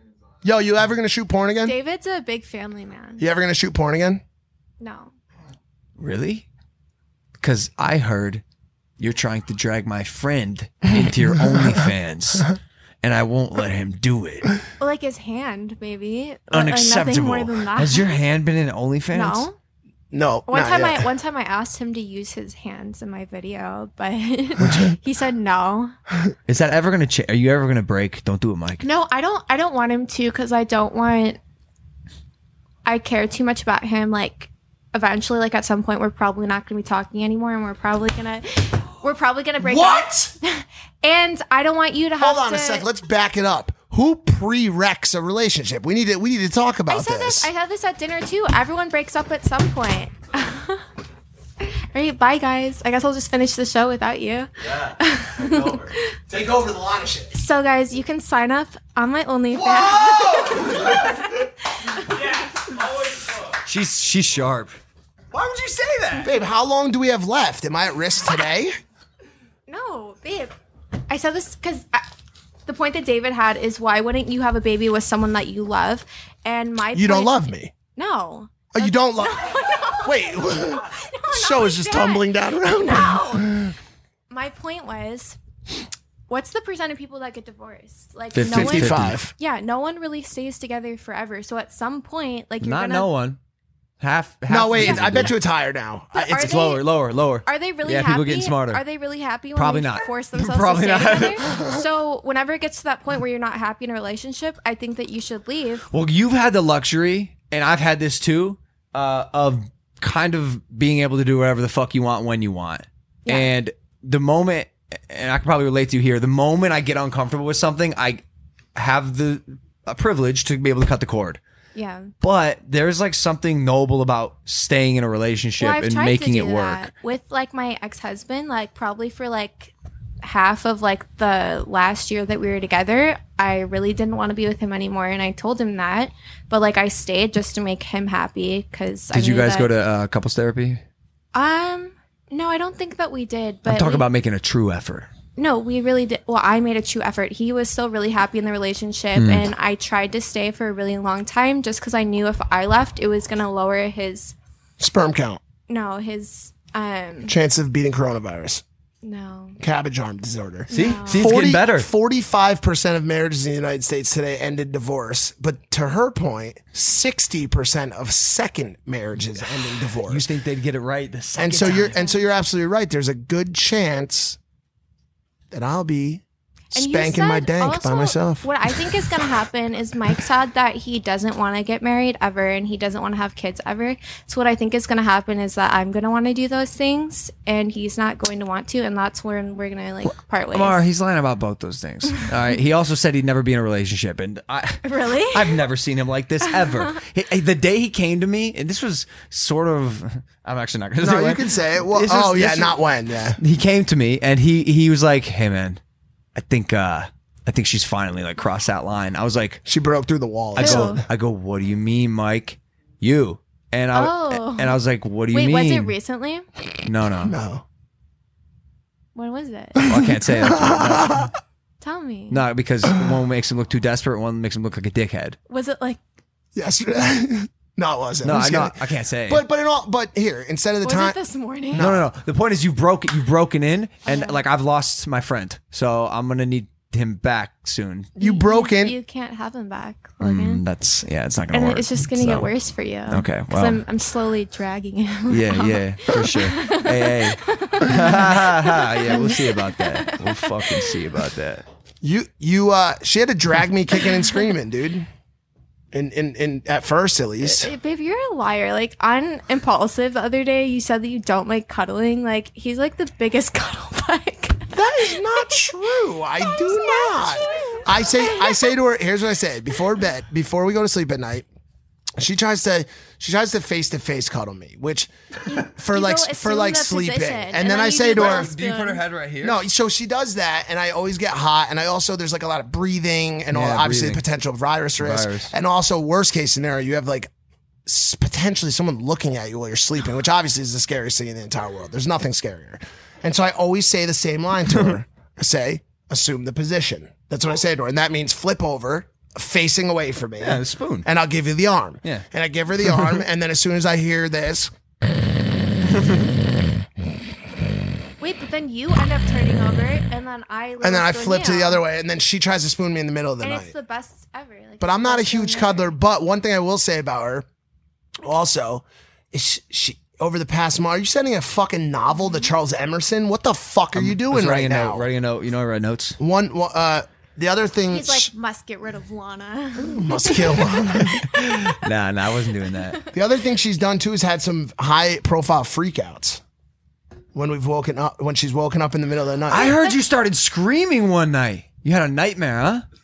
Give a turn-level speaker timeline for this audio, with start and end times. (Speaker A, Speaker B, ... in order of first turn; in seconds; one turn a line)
Speaker A: 0.4-1.8
Speaker B: 1.6-3.2
Speaker A: 3.2-4.2
Speaker B: 4.8-5.1
Speaker C: 6.0-6.5
Speaker C: 7.4-8.4
Speaker C: 9.0-14.5
Speaker B: 14.8-18.2
Speaker C: 16.5-19.5
Speaker B: 19.1-19.5
Speaker A: 20.1-21.1
Speaker B: 20.5-25.9
Speaker C: 26.5-28.8
Speaker B: 28.8-31.4
Speaker B: 32.9-42.9
Speaker A: 39.6-40.3
Speaker A: 42.2-47.5
Speaker B: 46.9-50.8
Speaker B: 51.6-56.1
Speaker C: 54.8-55.8
Speaker A: 56.3-57.3
Speaker B: 57.3-62.1
Speaker C: 59.6-61.0
Speaker C: 62.8-64.8
Speaker C: 65.3-66.3
Speaker A: 66.2-68.8
Speaker B: 69.7-70.5
Speaker B: 71.1-72.0
Speaker B: 72.7-77.3
Speaker A: 76.9-77.7
Speaker B: 78.0-83.7
Speaker A: 78.7-83.7
Speaker B: 84.3-85.4
Speaker B: 86.3-93.1
Speaker C: 88.3-89.2
Speaker A: 88.5-89.3
Speaker C: 92.6-93.4
Speaker C: 94.0-95.3
Speaker A: 94.5-96.8
Speaker B: 94.8-95.4
Speaker B: 96.1-96.8
Speaker C: 96.5-98.8
Speaker B: 97.4-105.8
Speaker C: 99.5-101.6
Speaker C: 105.9-118.2
Speaker C: 118.8-121.4
Speaker B: 121.7-122.1
Speaker C: 122.2-126.9
Speaker B: 125.6-139.7
Speaker C: 139.1-140.8
Speaker B: 141.3-144.1
Speaker C: 143.7-145.1
Speaker B: 145.4-154.3
Speaker C: 149.2-149.5
Speaker A: 154.8-155.4
Speaker B: 155.7-157.3
Speaker A: 157.2-158.6
Speaker B: 159.0-159.6
Speaker A: 159.6-170.2
Speaker B: 160.7-161.2
Speaker C: 160.7-161.9
Speaker C: 170.0-172.0
Speaker A: 171.4-174.4
Speaker B: 171.6-172.2
Speaker A: 175.5-176.2
Speaker A: 176.7-178.5
Speaker B: 176.7-190.8
Speaker C: 190.1-202.8
Speaker B: 194.8-195.6
Speaker B: 196.5-196.9
Speaker A: 201.0-203.4
Speaker C: 203.4-205.8
Speaker C: 206.3-209.6
Speaker A: 209.6-211.0
Speaker B: 210.6-211.0
Speaker C: 210.6-215.9
Speaker B: 213.9-214.8
Speaker B: 215.3-216.4
Speaker C: 216.8-217.3
Speaker A: 217.2-217.6
Speaker B: 219.1-219.8
Speaker A: 219.8-221.3
Speaker C: 219.8-221.3
Speaker B: 221.8-222.4
Speaker C: 222.3-225.4
Speaker B: 225.5-226.0
Speaker A: 226.5-231.2
Speaker C: 228.2-229.4
Speaker B: 230.8-231.8
Speaker A: 231.7-232.1
Speaker C: 231.8-238.1
Speaker B: 234.1-234.4
Speaker A: 238.2-238.9
Speaker B: 238.2-240.6
Speaker C: 240.2-242.5
Speaker B: 241.5-251.0
Speaker C: 243.1-243.8
Speaker C: 245.3-251.6
Speaker A: 252.0-255.1
Speaker A: 255.9-257.7
Speaker B: 257.4-265.7
Speaker A: 264.7-271.4
Speaker B: 266.4-268.8
Speaker A: 272.2-275.1
Speaker B: 275.4-279.0
Speaker A: 275.7-278.5
Speaker C: 278.0-279.6
Speaker A: 279.4-287.3
Speaker C: 283.5-284.2
Speaker C: 285.0-285.5
Speaker A: 287.9-304.7
Speaker C: 300.4-301.1
Speaker C: 302.8-303.2
Speaker C: 305.9-306.2
Speaker B: 308.2-311.8
Speaker A: 310.8-313.7
Speaker B: 313.4-315.9
Speaker A: 314.8-317.4
Speaker A: 318.2-325.0
Speaker C: 323.9-326.2
Speaker A: 326.2-328.3
Speaker B: 327.9-331.8
Speaker A: 329.8-331.3
Speaker C: 331.2-333.0
Speaker A: 333.1-336.4
Speaker A: 337.3-339.8
Speaker C: 339.5-342.9